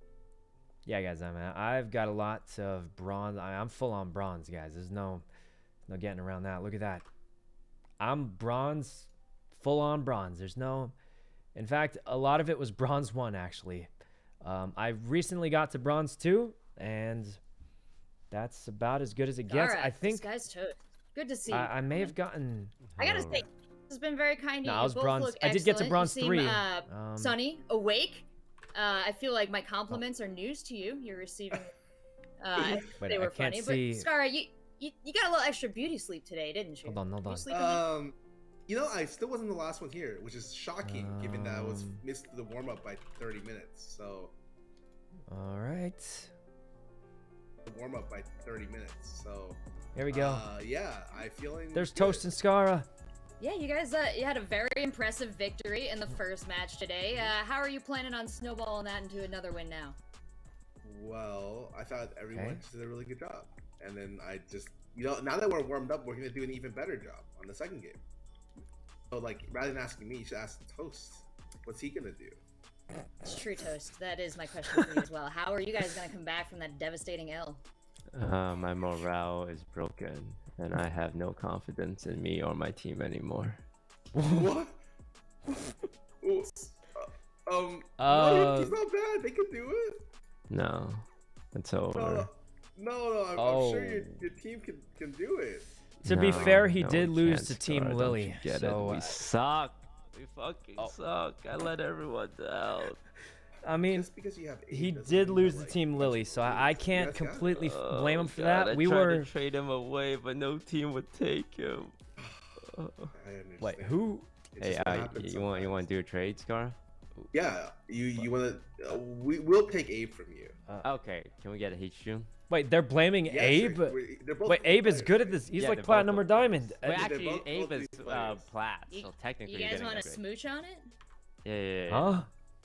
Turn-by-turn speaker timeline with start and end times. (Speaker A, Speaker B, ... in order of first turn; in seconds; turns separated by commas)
Speaker A: 0.9-5.2, Speaker A: 5.9-7.1, Speaker A: 8.0-10.9, Speaker A: 11.6-13.9, Speaker A: 14.4-17.4, Speaker A: 18.3-20.3, Speaker B: 19.5-22.1, Speaker A: 21.5-22.8, Speaker C: 22.8-23.5, Speaker B: 23.0-31.7, Speaker A: 24.6-27.4, Speaker B: 32.4-37.9, Speaker D: 32.6-33.0, Speaker A: 33.0-34.1, Speaker A: 36.9-37.5, Speaker D: 37.5-38.1, Speaker D: 38.7-44.3, Speaker A: 40.8-42.0, Speaker A: 45.3-46.3, Speaker D: 47.7-52.3, Speaker A: 50.0-50.5, Speaker A: 51.7-52.9, Speaker B: 53.4-60.0, Speaker D: 60.8-68.0, Speaker A: 62.3-62.6, Speaker D: 69.1-72.4, Speaker B: 73.2-77.6, Speaker C: 78.1-83.6, Speaker A: 84.2-84.5, Speaker D: 84.2-84.8, Speaker D: 86.2-90.0, Speaker A: 88.0-88.8, Speaker C: 90.5-92.3, Speaker D: 92.0-95.7, Speaker A: 93.4-94.2, Speaker C: 96.0-103.0, Speaker A: 96.0-99.2, Speaker A: 103.6-104.1, Speaker D: 103.9-107.5, Speaker A: 104.7-109.3, Speaker C: 107.5-112.0, Speaker D: 112.2-112.5, Speaker C: 112.6-113.1, Speaker D: 113.1-115.9, Speaker A: 113.6-114.3, Speaker C: 114.6-116.8, Speaker D: 117.3-120.6, Speaker C: 120.8-122.3, Speaker A: 122.5-127.2, Speaker D: 123.3-125.5, Speaker C: 125.5-130.2, Speaker D: 126.9-128.5, Speaker B: 128.9-130.9, Speaker C: 131.4-132.3, Speaker A: 131.9-132.3